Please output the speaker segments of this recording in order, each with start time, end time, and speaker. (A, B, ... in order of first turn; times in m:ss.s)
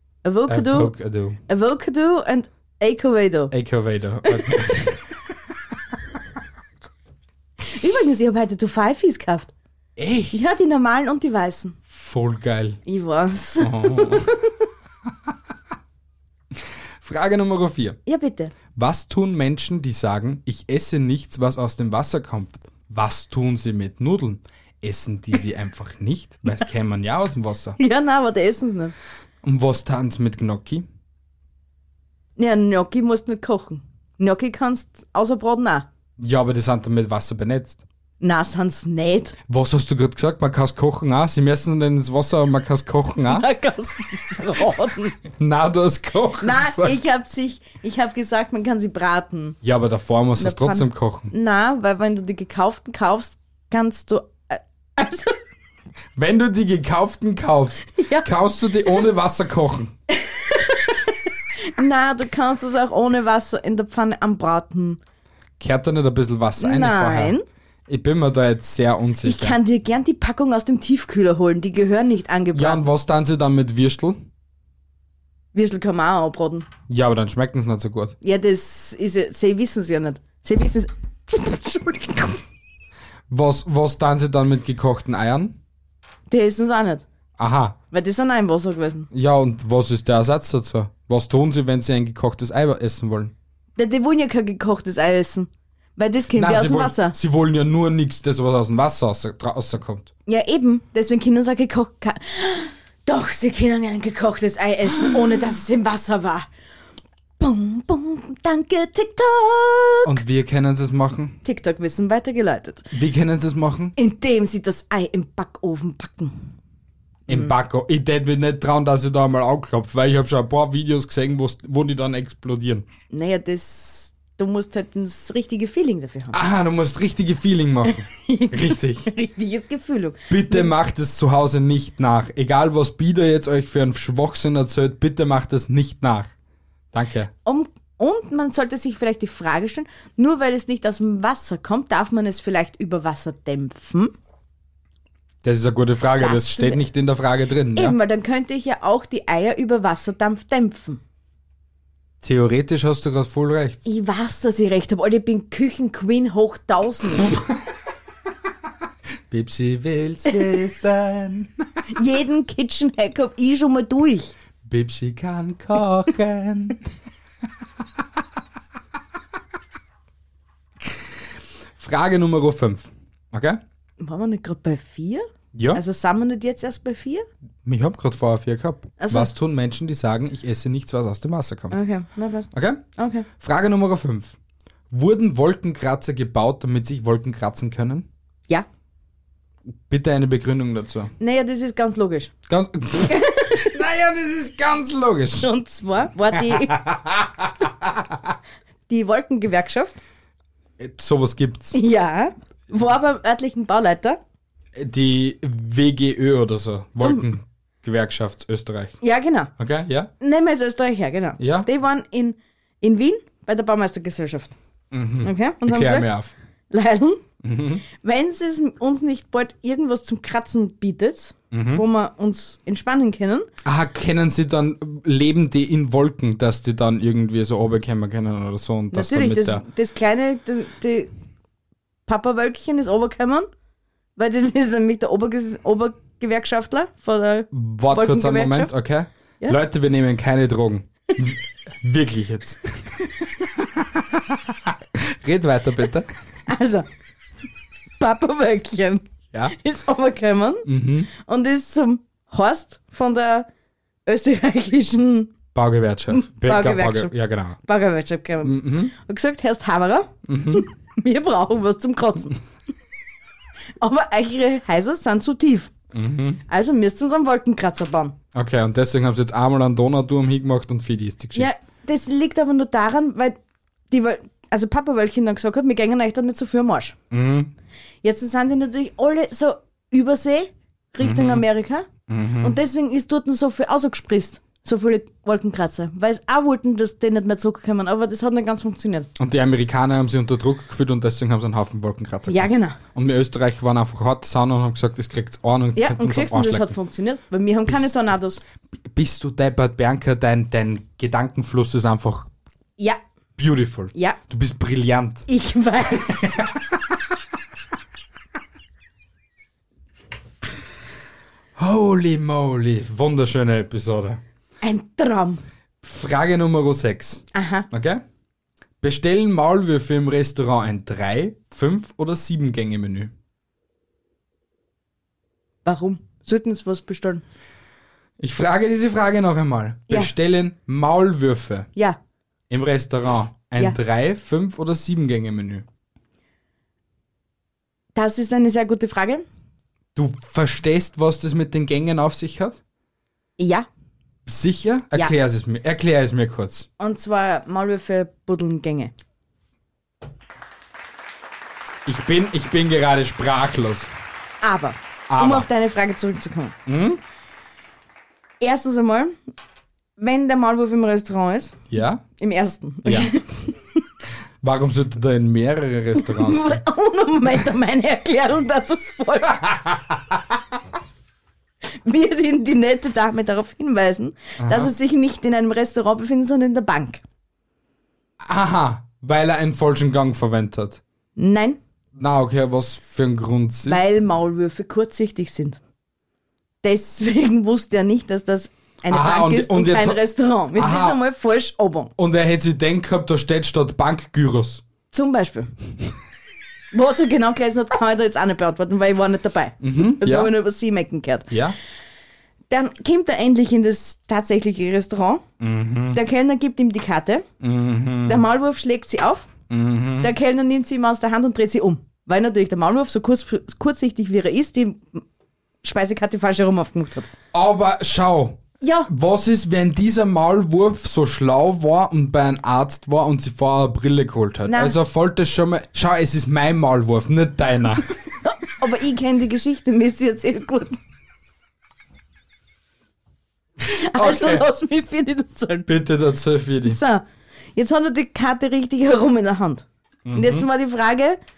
0:00.2-0:00.9 A
0:00.5-0:01.4 B
0:01.5-0:03.5 A
0:03.5-0:05.0 B
0:04.3-0:04.5 A
0:07.6-0:09.5 A
0:10.0-0:10.4 B
0:10.3-0:11.8 A
0:11.9-0:12.8 B
0:12.8-0:14.5 A
0:13.6-0:14.3 B
0:16.6-0:18.0 B
0:18.1-0:18.5 A
0:18.7-0:27.8 B
0:27.8-0:29.0 A
0:29.4-0:30.9 B
0:32.4-0:35.9 A
0:36.2-0:37.8 B
0:38.2-0:39.4 A
0:39.5-0:43.5 B
0:43.3-0:45.2 A
0:45.3-0:47.0 B
0:46.4-0:49.6 A
0:49.6-0:51.3 B
0:50.4-0:55.4 A
0:56.2-0:59.9 B
0:58.0-0:58.3 A
1:00.3-1:05.0 A
1:05.6-1:07.4 B
1:06.6-1:07.4 A
1:07.9-1:09.6 B
1:09.2-1:12.8 A
1:12.5-1:14.2 B
1:15.5-1:16.7 A
1:16.9-1:18.2 B
1:18.2-1:22.4 A
1:23.3-1:25.6 B
1:26.3-1:27.0 A
1:27.4-1:27.8 B
1:27.9-1:29.1 A
1:29.1-1:33.3 B
1:33.8-1:37.2 A
1:36.4-1:40.1 B
1:40.3-1:46.5 A
1:47.4-1:50.2 A
1:50.0-1:51.4 B
1:51.4-1:52.9 A
1:52.9-1:53.9 B
1:54.0-1:56.4 A
1:57.3-2:02.9 B
2:03.1-2:06.4 A
2:06.3-2:09.1 B
2:07.9-2:10.7 A
2:10.3-2:16.3 B
2:16.9-2:17.3 B
2:17.4-2:24.1 A
2:25.4-2:28.0 B
2:26.2-2:26.8 A
2:27.8-2:31.0 A
2:32.2-2:33.8 B
2:33.9-2:37.4 A
2:39.3-2:41.6 B
2:41.9-2:44.3 A
2:44.6-2:46.8 B
2:51.8-2:53.6 B
2:54.0-2:57.2 A
2:55.6-2:55.8 B
2:57.6-3:01.8 B
2:59.0-2:59.3 A
3:01.7-3:03.3 A
3:02.5-3:02.8 B
3:03.4-3:04.4 B
3:04.9-3:08.1 B
3:09.9-3:11.1 B
3:11.2-3:12.3 A
3:12.5-3:15.5 B
3:13.0-3:13.7 A
3:15.4-3:16.8 A
3:16.3-3:18.2 B
3:18.9-3:20.0 A
3:20.8-3:21.8 B
3:21.7-3:24.2 A
3:24.8-3:29.0 B
3:27.0-3:27.2 A
3:29.0-3:29.5 A
3:29.6-3:30.1 B
3:30.2-3:34.6 A
3:31.4-3:31.7 B
3:34.9-3:36.3 B
3:35.2-3:36.1 A
3:36.7-3:37.2 A
3:37.4-3:37.8 B
3:37.9-3:43.5 A
3:41.5-3:41.8 B
3:43.6-3:49.6 B
3:48.9-3:51.1 A
3:52.1-3:53.5 A
3:54.2-3:58.7 A
3:57.5-4:02.7 B
4:03.6-4:06.1 B
4:06.5-4:06.9 A
4:08.0-4:13.5 A
4:10.7-4:11.1 B
4:14.1-4:15.3 A
4:15.5-4:17.6 B
4:16.1-4:17.1 A
4:17.6-4:22.4 A
4:18.4-4:18.9 B
4:20.3-4:20.7 B
4:23.8-4:25.7 A
4:25.9-4:26.4 B
4:26.5-4:28.2 A
4:28.3-4:31.5 B
4:31.4-4:33.4 A
4:33.9-4:37.0 A
4:37.1-4:37.5 B
4:38.0-4:41.9 A
4:41.0-4:41.4 B
4:42.1-4:42.6 B
4:42.4-4:49.1 A
4:49.2-4:56.8 B
4:52.3-4:52.8 A
4:55.8-4:58.4 A
4:57.7-4:58.0 B
4:58.9-5:02.3 B
5:03.4-5:05.3 B
5:05.3-5:06.4 A
5:05.9-5:07.0 B
5:11.6-5:14.2 B
5:14.6-5:15.4 A
5:15.8-5:18.0 B
5:17.3-5:17.7 A
5:18.8-5:23.1 B
5:25.6-5:27.2 A
5:28.2-5:31.7 B
5:32.5-5:35.7 B
5:38.0-5:39.2 A
5:40.0-5:42.6 B
5:43.4-5:43.7 A
5:44.3-5:46.7 B
5:46.8-5:48.9 A
5:51.9-5:53.9 B
5:54.4-5:56.6 A
5:55.1-5:55.5 B
5:56.7-5:57.0 B
5:58.4-5:59.2 A
6:00.0-6:01.6 A
6:01.7-6:02.0 B
6:02.2-6:03.5 A
6:02.8-6:03.1 B
6:04.4-6:06.6 B
6:06.0-6:09.6 A
6:09.3-6:10.2 B
6:11.8-6:17.0 A
6:14.4-6:14.7 B
6:18.2-6:20.8 B
6:21.2-6:21.6 A
6:22.0-6:23.9 B
6:23.7-6:25.6 A
6:26.6-6:31.9 A
6:28.9-6:30.0 B
6:30.5-6:31.0 B
6:32.0-6:34.6 B
6:34.9-6:35.5 A
6:36.7-6:41.3 A
6:39.6-6:40.3 B
6:41.3-6:41.6 B
6:42.5-6:45.2 A
6:45.4-6:46.0 B
6:45.9-6:47.3 A
6:47.4-6:48.2 B
6:48.0-6:49.3 A
6:49.5-6:50.1 B
6:50.0-6:55.0 A
6:55.6-6:57.1 A
6:57.3-7:07.9 B
6:58.6-6:58.9 A
7:04.5-7:04.8 A
7:08.2-7:10.8 A
7:13.6-7:15.7 A
7:14.0-7:14.5 B
7:15.7-7:16.8 B
7:16.6-7:21.2 A
7:20.1-7:20.5 B